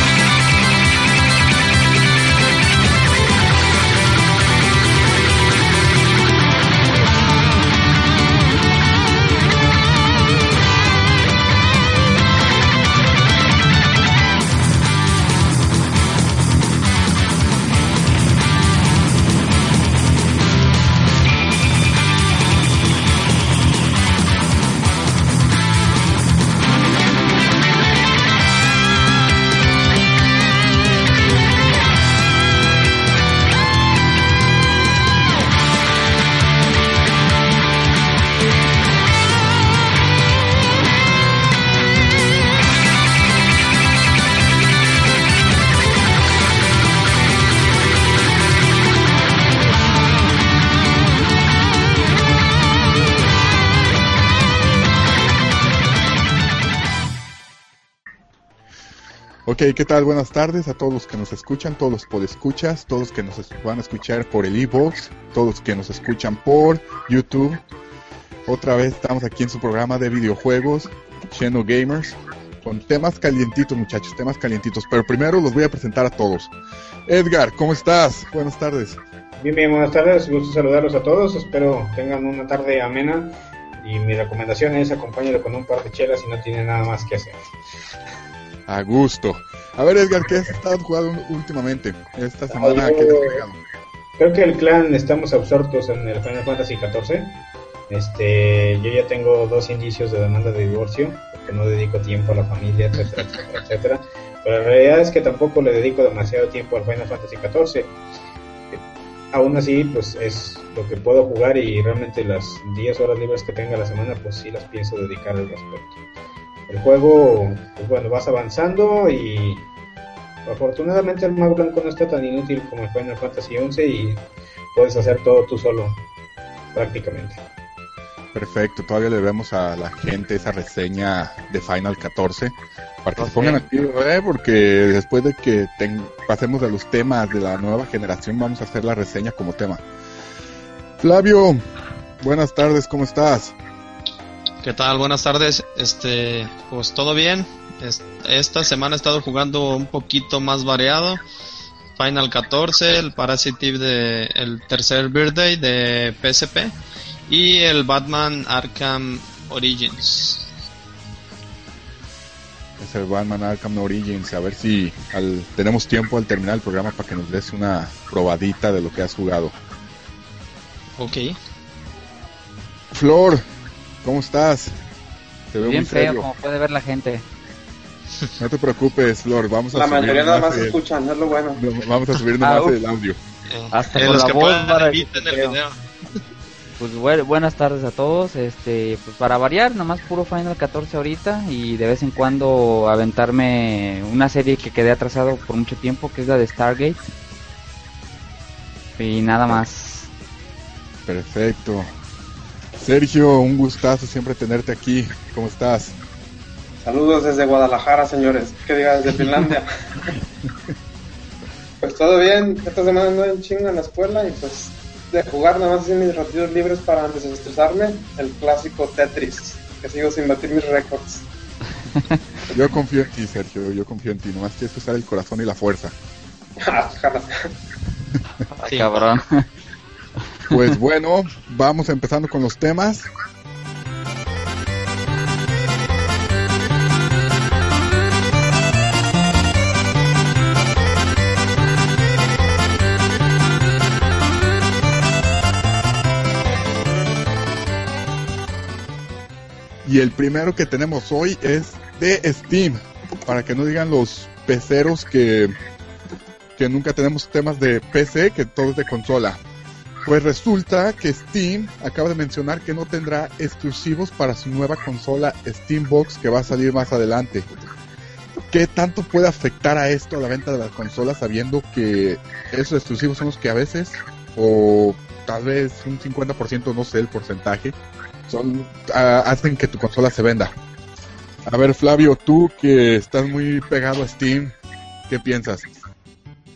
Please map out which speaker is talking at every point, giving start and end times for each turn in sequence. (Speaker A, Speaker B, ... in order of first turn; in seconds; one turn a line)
Speaker A: 59.5-67.6
Speaker A: 68.5-76.5
Speaker A: 77.0-79.0
Speaker B: 79.4-87.5
Speaker A: 88.7-93.6
Speaker B: 92.5-93.4
Speaker B: 94.2-107.9
Speaker B: 108.7-116.0
Speaker B: 116.7-119.7
Speaker B: 120.5-126.0
Speaker B: 126.7-127.4
Speaker A: 128.3-139.8
Speaker A: 141.0-141.6
Speaker A: 142.2-143.6
Speaker C: 144.6-151.2
Speaker C: 151.9-156.7
Speaker C: 157.3-160.5
Speaker A: 162.8-169.6
Speaker C: 171.0-171.4
Speaker A: 172.9-173.4
Speaker A: 174.0-174.8
Speaker A: 175.5-176.3
Speaker D: 175.6-177.2
Speaker A: 178.4-180.8
Speaker E: 179.7-181.6
Speaker A: 181.6-183.2
Speaker D: 182.4-182.8
Speaker C: 183.5-185.8
Speaker D: 183.7-185.6
Speaker D: 186.8-197.0
Speaker D: 199.0-200.1
Speaker A: 201.1-201.9
Speaker A: 202.8-206.0
Speaker E: 206.8-209.7
Speaker E: 211.8-221.2
Speaker A: 222.5-225.9
Speaker E: 226.6-227.3
Speaker D: 228.5-229.5
Speaker C: 228.7-229.1
Speaker A: 230.5-233.1
Speaker A: 249.8-255.6
Speaker A: 256.6-259.4
Speaker A: 260.0-267.5
Speaker A: 268.5-277.7
Speaker A: 278.3-280.5
Speaker A: 281.4-284.6
Speaker A: 285.1-285.7